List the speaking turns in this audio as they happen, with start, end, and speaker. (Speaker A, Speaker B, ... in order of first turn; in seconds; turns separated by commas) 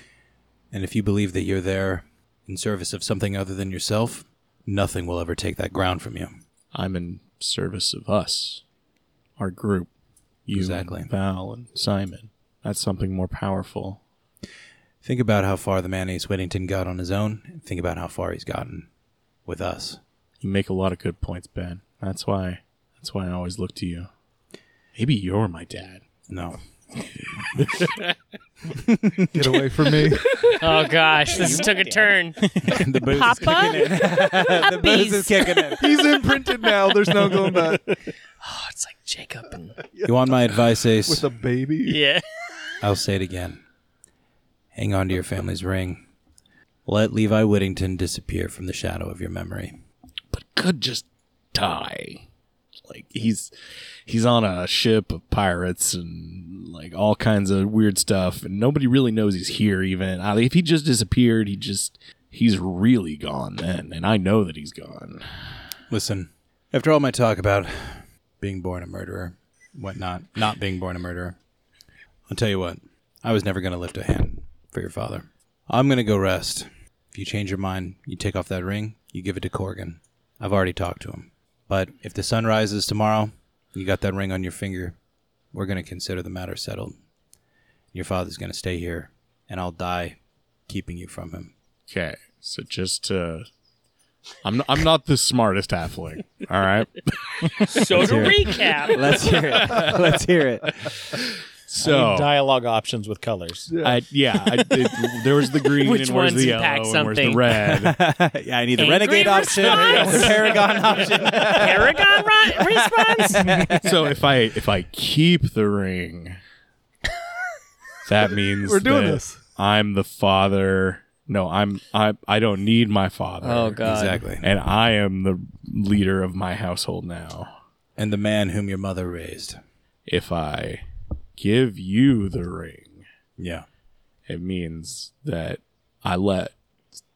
Speaker A: 0.7-6.4, Speaker B: 6.7-8.6, Speaker B: 9.4-9.9, Speaker B: 10.4-14.0, Speaker A: 10.5-11.1, Speaker A: 15.0-18.9, Speaker A: 19.4-20.0, Speaker B: 20.4-24.1, Speaker B: 24.9-26.0, Speaker A: 26.3-26.6, Speaker B: 27.4-28.1, Speaker A: 28.7-29.6, Speaker C: 29.3-30.3, Speaker B: 29.9-31.0, Speaker D: 30.6-35.8, Speaker E: 31.3-32.8, Speaker A: 32.7-36.0, Speaker C: 35.8-38.0, Speaker D: 38.4-39.8, Speaker C: 39.9-42.0, Speaker A: 40.0-41.2, Speaker D: 41.8-42.2, Speaker A: 42.8-43.6, Speaker A: 44.7-46.0, Speaker A: 46.9-49.8, Speaker B: 50.3-52.2, Speaker B: 52.9-53.5, Speaker B: 54.0-65.2, Speaker A: 65.9-71.3, Speaker A: 72.3-85.0, Speaker A: 85.5-86.9, Speaker A: 87.9-91.5, Speaker B: 91.9-93.5, Speaker B: 94.4-100.0, Speaker D: 97.7-99.2, Speaker A: 97.9-100.9, Speaker B: 100.8-102.3, Speaker E: 101.8-103.7, Speaker C: 103.7-104.0, Speaker B: 103.8-108.0, Speaker D: 105.7-107.4, Speaker A: 107.7-114.1, Speaker D: 108.8-113.8, Speaker C: 109.7-110.3, Speaker B: 113.8-116.4, Speaker B: 118.0-123.8, Speaker C: 118.6-119.4, Speaker D: 123.4-124.2, Speaker A: 123.8-124.4, Speaker B: 124.4-127.5, Speaker A: 128.0-129.6, Speaker B: 130.1-130.8, Speaker B: 131.3-133.0, Speaker A: 133.4-133.7, Speaker B: 134.3-136.5